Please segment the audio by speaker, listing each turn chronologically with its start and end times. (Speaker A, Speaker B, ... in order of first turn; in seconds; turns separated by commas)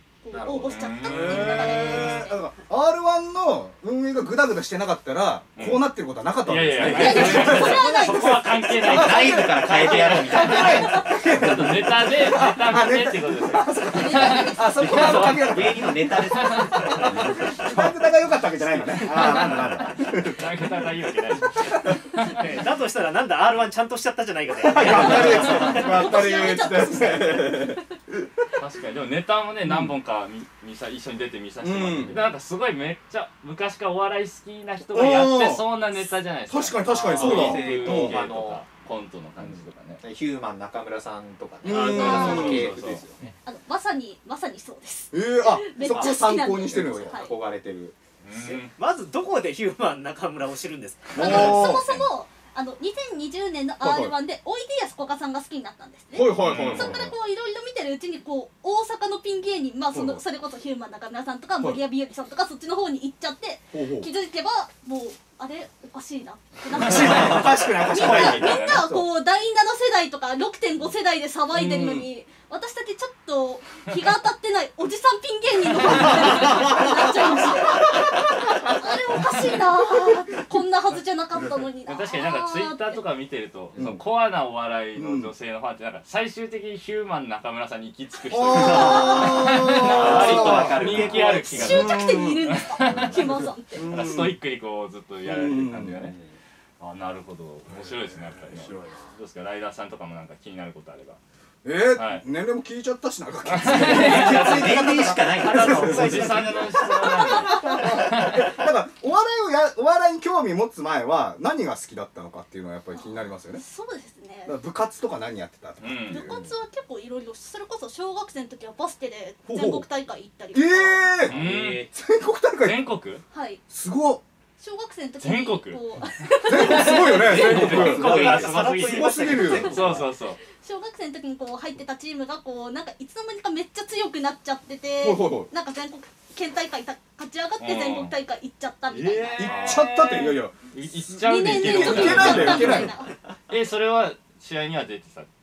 Speaker A: 0.2-2.4, Speaker B: 0.3-0.9, Speaker C: 0.7-2.1, Speaker D: 1.0-20.4, Speaker C: 5.5-5.9, Speaker C: 6.4-15.6, Speaker A: 6.8-8.4, Speaker B: 8.8-11.7, Speaker A: 10.4-11.1, Speaker A: 13.8-15.4, Speaker B: 14.8-17.8, Speaker C: 16.4-17.0, Speaker C: 20.2-22.4, Speaker D: 21.6-22.0, Speaker E: 22.2-26.0, Speaker D: 24.6-28.3, Speaker A: 24.9-27.9, Speaker C: 25.0-25.5, Speaker C: 28.6-40.0, Speaker D: 29.6-29.9, Speaker D: 31.6-32.2, Speaker D: 34.9-35.6, Speaker D: 36.5-38.2, Speaker B: 36.9-38.6, Speaker B: 39.4-43.3, Speaker D: 41.6-42.8, Speaker A: 41.7-42.6, Speaker C: 41.8-43.0, Speaker A: 43.4-47.3, Speaker D: 45.1-47.3, Speaker B: 45.8-48.6, Speaker C: 48.2-48.7, Speaker E: 48.8-51.4, Speaker D: 51.1-51.9, Speaker A: 51.1-83.0, Speaker B: 51.2-51.6, Speaker D: 53.8-54.1, Speaker D: 56.1-57.1, Speaker C: 56.4-57.1, Speaker D: 59.9-60.2, Speaker D: 63.7-64.1, Speaker D: 66.7-69.0, Speaker C: 66.8-68.9, Speaker D: 71.5-72.1, Speaker D: 76.3-76.8, Speaker D: 78.0-78.7, Speaker C: 81.8-93.2, Speaker B: 83.7-84.0, Speaker D: 83.8-84.0, Speaker D: 84.9-85.3, Speaker D: 88.3-92.5, Speaker A: 88.5-94.0, Speaker B: 88.7-91.8, Speaker D: 93.7-94.4, Speaker C: 93.8-96.2, Speaker D: 95.2-96.0, Speaker B: 95.8-96.3, Speaker C: 96.8-101.2, Speaker B: 97.8-99.2, Speaker D: 101.6-106.5, Speaker C: 101.9-102.2, Speaker C: 103.5-108.4, Speaker B: 103.6-106.8, Speaker E: 105.8-106.5, Speaker A: 106.8-107.9, Speaker E: 107.3-108.0, Speaker D: 107.7-113.6, Speaker A: 112.9-114.5, Speaker D: 114.5-116.4, Speaker C: 115.8-116.3, Speaker A: 116.1-121.1, Speaker D: 119.5-119.9, Speaker D: 120.5-122.8, Speaker B: 121.2-121.9, Speaker C: 121.2-121.9, Speaker C: 122.6-123.2, Speaker A: 123.3-123.6, Speaker D: 123.7-124.2, Speaker A: 124.6-127.8, Speaker C: 125.2-125.8, Speaker D: 126.5-129.7, Speaker C: 126.5-130.4, Speaker B: 127.2-129.9, Speaker E: 127.9-130.0, Speaker A: 130.5-140.4, Speaker D: 135.0-135.5, Speaker C: 137.6-138.1, Speaker C: 138.9-142.9, Speaker D: 139.4-140.5, Speaker A: 141.2-143.1, Speaker D: 141.4-142.9, Speaker C: 143.5-145.3